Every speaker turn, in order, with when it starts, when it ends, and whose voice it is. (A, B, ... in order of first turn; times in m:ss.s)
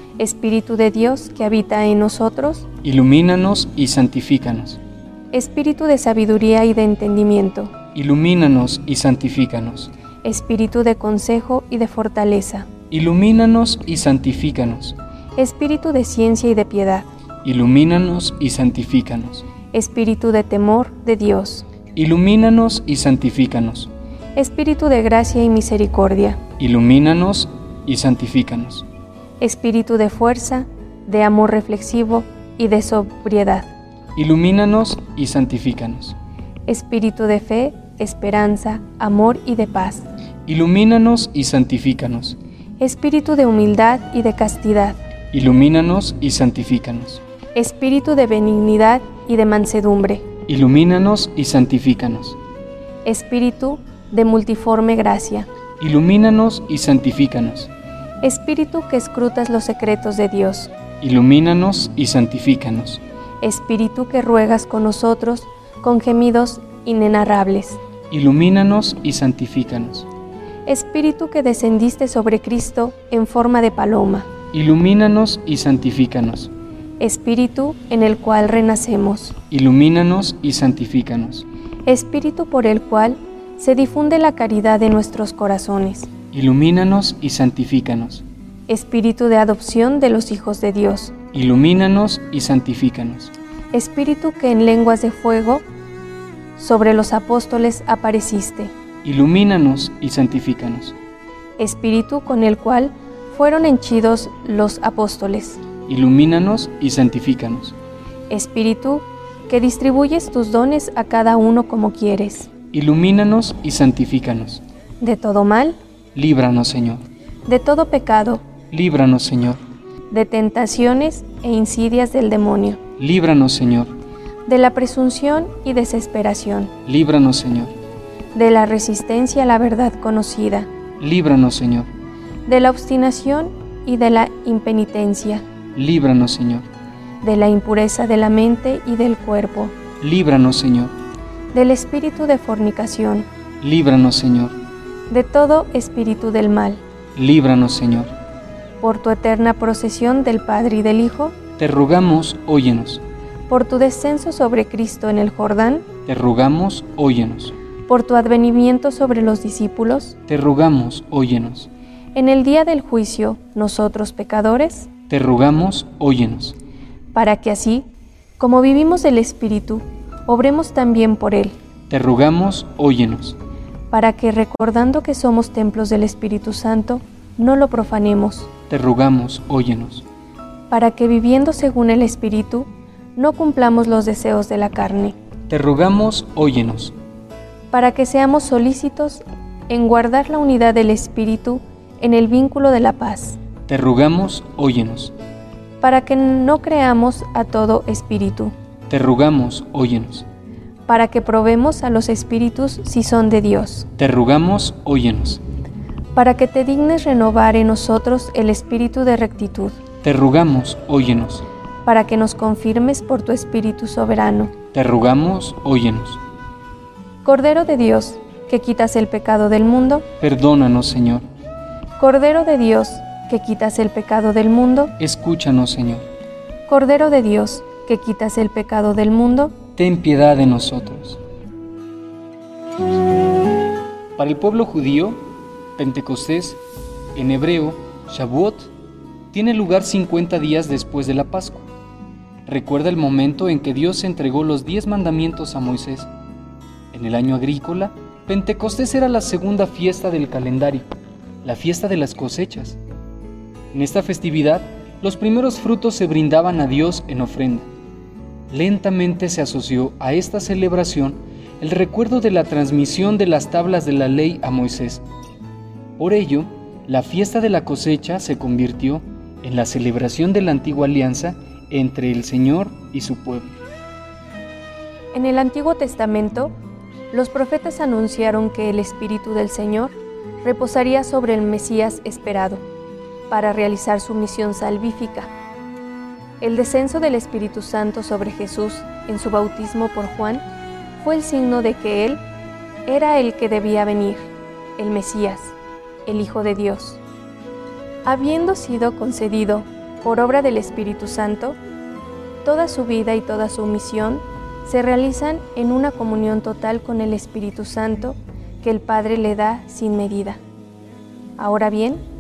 0:00.2-0:02.7 A
0:02.8-0:04.8 B
0:05.3-0:07.8 A
0:07.9-0:09.9 B
0:10.2-0:12.7 A
0:12.9-0:15.0 B
0:15.4-0:17.1 A
0:17.4-0:19.4 B
0:19.7-0:21.7 A
0:22.0-0:23.9 B
0:24.4-0:26.4 A
0:26.6-0:28.9 B
0:29.4-0:33.7 A
0:34.2-0:36.2 B
0:36.7-0:40.1 A
0:40.5-0:42.4 B
0:42.8-0:45.0 A
0:45.3-0:47.2 B
0:47.6-0:50.3 A
0:50.5-0:52.4 B
0:53.0-0:55.5 A
0:55.8-0:57.7 B
0:58.2-1:00.7 A
1:01.0-1:03.0 B
1:03.4-1:07.8 A
1:08.1-1:10.1 B
1:10.7-1:14.3 A
1:14.5-1:16.5 B
1:17.0-1:19.4 A
1:19.5-1:21.5 B
1:21.9-1:26.1 A
1:26.3-1:28.2 B
1:28.7-1:31.1 A
1:31.3-1:33.3 B
1:33.7-1:35.6 A
1:36.6-1:38.7 A
1:39.0-1:41.0 B
1:41.6-1:45.6 A
1:45.9-1:47.8 B
1:48.3-1:52.5 A
1:52.7-1:54.6 B
1:55.0-1:55.8 A
1:56.2-1:57.0 B
1:57.5-1:58.4 A
1:58.7-1:59.6 B
2:00.1-2:02.8 A
2:03.0-2:03.9 B
2:04.5-2:06.7 A
2:06.8-2:07.7 B
2:08.4-2:10.7 A
2:11.0-2:11.9 B
2:12.5-2:15.4 A
2:15.8-2:16.7 B
2:17.2-2:19.8 A
2:20.0-2:21.0 B
2:21.5-2:23.3 A
2:23.6-2:24.6 B
2:25.1-2:26.8 A
2:27.2-2:28.1 B
2:28.8-2:31.4 A
2:31.6-2:33.0 B
2:33.5-2:35.9 A
2:36.1-2:37.5 B
2:37.9-2:40.2 A
2:40.3-2:41.7 B
2:42.2-2:44.9 A
2:45.1-2:46.6 B
2:47.1-2:47.9 A
2:48.4-2:51.6 A
2:51.9-2:53.4 B
2:53.9-2:58.5 A
2:58.7-3:00.0 B
3:00.7-3:05.2 A
3:05.5-3:06.9 B
3:07.7-3:13.4 A
3:13.7-3:15.1 B
3:15.8-3:18.5 A
3:18.9-3:20.3 B
3:20.9-3:23.9 A
3:24.0-3:25.4 B
3:26.1-3:29.8 A
3:30.0-3:31.4 B
3:31.8-3:34.5 A
3:34.7-3:36.2 B
3:37.2-3:40.1 A
3:40.2-3:41.3 B
3:42.0-3:44.9 A
3:45.0-3:46.0 B
3:46.7-3:49.6 A
3:49.8-3:51.2 B
3:54.2-3:56.6 B
3:57.2-3:58.7 B
3:59.3-4:01.7 B
4:02.5-4:06.1 B
4:06.9-4:10.9 B
4:11.4-4:12.8 B
4:13.7-4:17.7 B
4:18.5-4:25.0 B
4:26.0-4:33.6 B
4:35.1-4:36.5 A
4:37.1-4:42.6 A
4:43.3-4:45.3 A
4:46.4-4:50.4 A
4:51.0-4:52.2 A
4:52.9-4:57.0 A
4:58.0-5:01.6 A
5:02.4-5:10.4 A
5:11.4-5:12.0 A